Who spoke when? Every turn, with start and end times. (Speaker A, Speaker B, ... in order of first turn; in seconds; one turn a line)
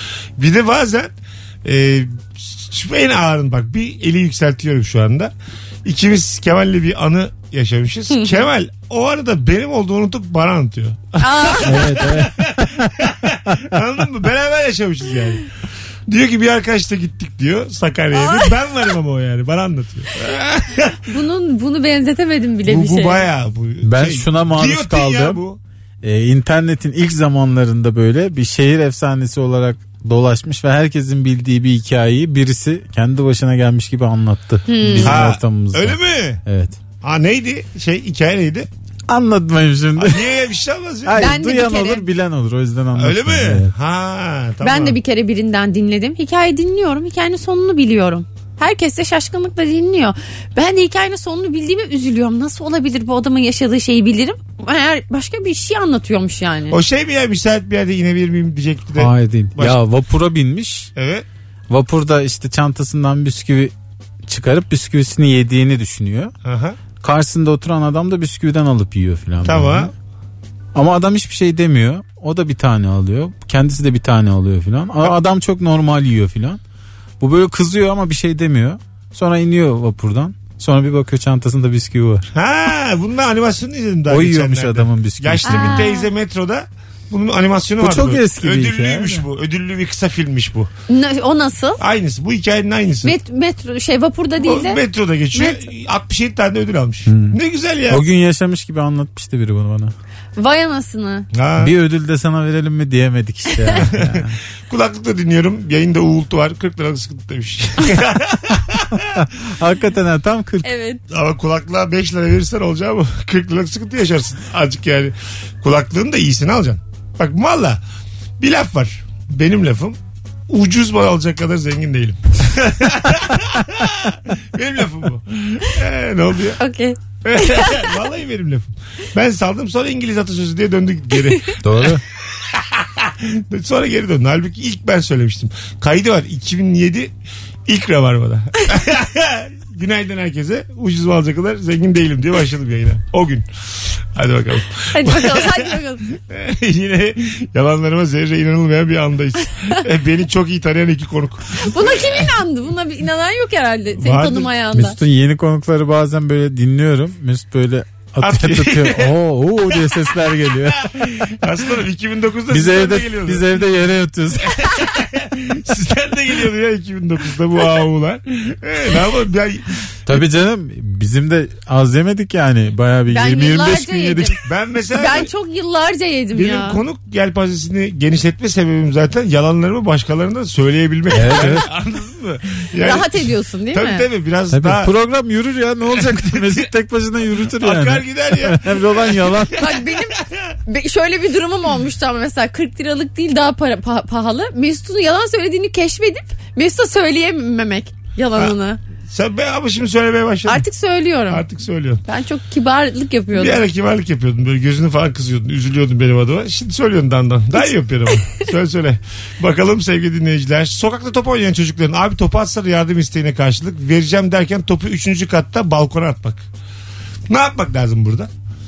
Speaker A: 0.4-1.1
Speaker A: 1.6-5.3
Speaker A: 5.8-15.5
Speaker B: 11.2-11.7
Speaker C: 11.6-13.6
Speaker A: 16.1-21.0
Speaker B: 18.2-18.5
Speaker B: 21.1-23.2
Speaker A: 22.6-25.6
Speaker C: 23.8-25.4
Speaker C: 26.0-36.8
Speaker B: 34.7-35.2
Speaker A: 34.9-36.4
Speaker A: 37.0-38.7
Speaker C: 39.1-40.3
Speaker A: 40.0-41.3
Speaker C: 41.0-43.7
Speaker B: 41.2-42.0
Speaker A: 43.0-45.0
Speaker B: 44.6-56.8
Speaker A: 56.7-59.8
Speaker C: 59.0-60.9
Speaker A: 61.0-61.3
Speaker C: 61.7-63.7
Speaker C: 64.3-66.3
Speaker A: 66.4-66.8
Speaker C: 67.0-69.9
Speaker A: 69.4-69.9
Speaker C: 70.8-76.6
Speaker C: 77.2-82.3
Speaker A: 82.3-90.7
Speaker C: 84.1-85.8
Speaker B: 85.5-86.1
Speaker C: 87.8-89.2
Speaker B: 90.9-91.8
Speaker A: 91.8-93.2
Speaker B: 93.0-94.8
Speaker A: 94.4-98.0
Speaker B: 95.3-95.6
Speaker C: 97.1-97.4
Speaker C: 97.9-99.9
Speaker B: 100.4-101.3
Speaker A: 101.3-101.8
Speaker C: 101.6-104.4
Speaker A: 103.8-109.2
Speaker C: 109.1-110.7
Speaker B: 110.6-111.0
Speaker A: 111.1-117.8
Speaker A: 118.4-120.0
Speaker A: 120.5-126.6
Speaker B: 126.6-127.9
Speaker A: 127.2-137.1
Speaker C: 131.6-132.0
Speaker A: 137.7-143.5
Speaker A: 144.1-152.3
Speaker B: 144.9-146.1
Speaker B: 151.6-155.0
Speaker A: 154.0-154.5
Speaker C: 154.7-161.3
Speaker A: 158.2-159.1
Speaker A: 159.7-160.1
Speaker A: 160.7-163.5
Speaker C: 162.5-164.6
Speaker A: 164.4-170.2
Speaker C: 170.1-174.3
Speaker B: 173.1-174.4
Speaker A: 174.4-175.3
Speaker B: 174.9-176.8
Speaker A: 176.3-184.9
Speaker C: 181.1-181.7
Speaker B: 182.8-184.1
Speaker C: 184.5-189.6
Speaker A: 186.0-186.7
Speaker A: 187.6-190.5
Speaker B: 189.6-198.8
Speaker A: 199.1-200.7
Speaker B: 200.5-201.4
Speaker A: 201.3-202.0
Speaker B: 202.1-203.6
Speaker A: 203.3-216.5
Speaker A: 217.3-218.3